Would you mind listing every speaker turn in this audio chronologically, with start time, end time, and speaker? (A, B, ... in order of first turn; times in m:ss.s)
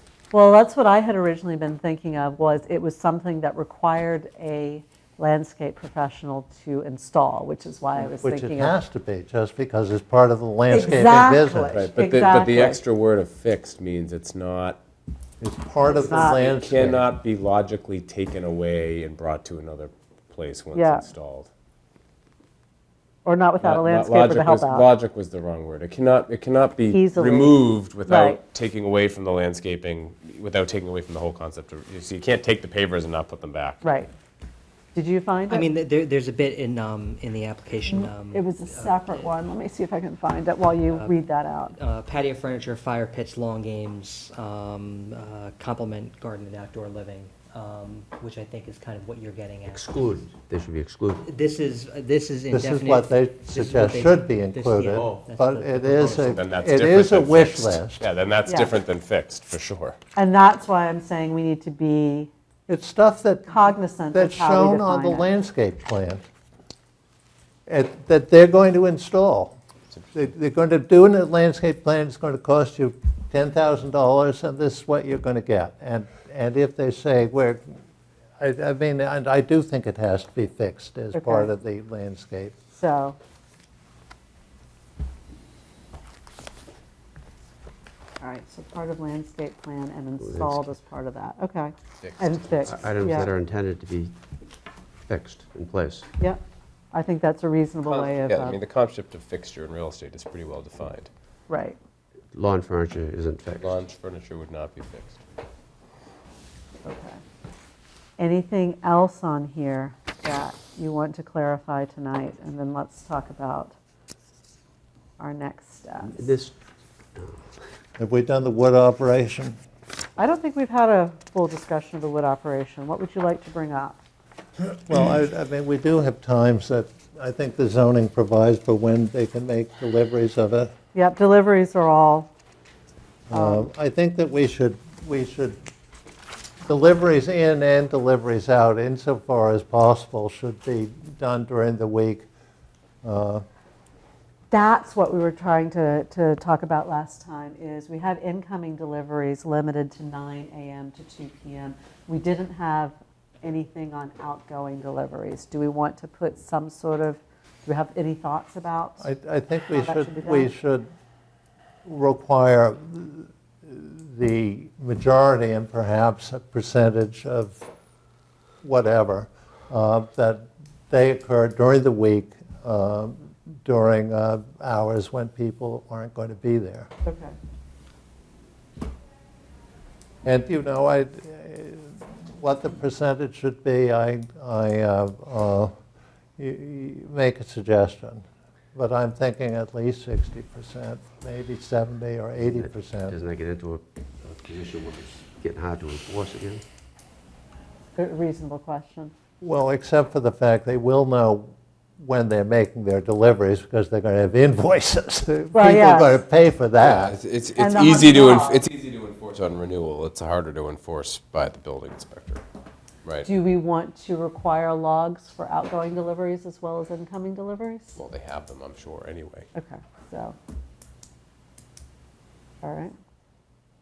0:00.3-0:08.8 A
0:08.0-0:11.9 B
0:10.7-0:12.8 A
0:11.7-0:14.8 C
0:15.4-0:17.0 B
0:15.9-0:21.5 C
0:16.1-0:16.4 A
0:20.7-0:21.1 A
0:23.2-0:24.9 A
0:23.6-0:33.8 C
0:26.9-0:28.4 A
0:33.8-0:34.1 A
0:35.0-0:35.7 A
0:35.5-0:39.3 D
0:37.9-0:41.7 A
0:40.9-0:41.1 D
0:41.7-0:49.9 D
0:49.7-0:51.3 E
0:51.2-0:56.4 D
0:52.5-0:58.0 B
0:54.9-0:55.2 E
0:56.3-1:00.0 C
0:58.5-0:58.7 A
1:00.2-1:02.3 A
1:02.7-1:06.2 B
1:03.5-1:05.3 A
1:07.7-1:09.6 B
1:10.1-1:17.6 B
1:18.4-1:22.6 B
1:21.1-1:21.5 A
1:22.7-1:23.2 A
1:28.2-1:33.3 A
1:30.2-1:30.7 E
1:32.0-1:32.7 C
1:32.7-1:34.1 E
1:35.1-1:36.1 E
1:36.9-1:38.6 A
1:37.8-1:41.1 C
1:41.5-1:41.8 A
1:42.3-1:43.8 E
1:43.6-1:45.2 C
1:46.8-1:47.2 A
1:48.2-1:53.7 A
1:55.2-1:56.3 A
1:56.0-1:56.6 E
1:57.2-1:57.4 E
1:58.0-1:59.6 B
2:00.2-2:04.0 A
2:04.8-2:10.7 B
2:10.9-2:12.3 A
2:13.3-2:15.6 B
2:13.3-2:13.7 A
2:16.6-2:22.3 B
2:23.0-2:23.4 B
2:24.5-2:39.1 A
2:39.0-2:40.9 B
2:39.7-2:40.5 A
2:41.9-2:47.7 B
2:48.6-2:56.9 B
2:57.0-2:57.3 A
3:00.2-3:05.7 B
3:06.4-3:13.2 B
3:12.6-3:16.6 E
3:18.0-3:19.1 A
3:19.4-3:27.2 B
3:25.5-3:26.2 A
3:26.8-3:32.4 C
3:27.6-3:28.6 A
3:33.0-3:33.3 C
3:33.2-3:37.9 A
3:38.0-3:39.5 C
3:39.6-3:40.4 A
3:42.6-3:43.0 A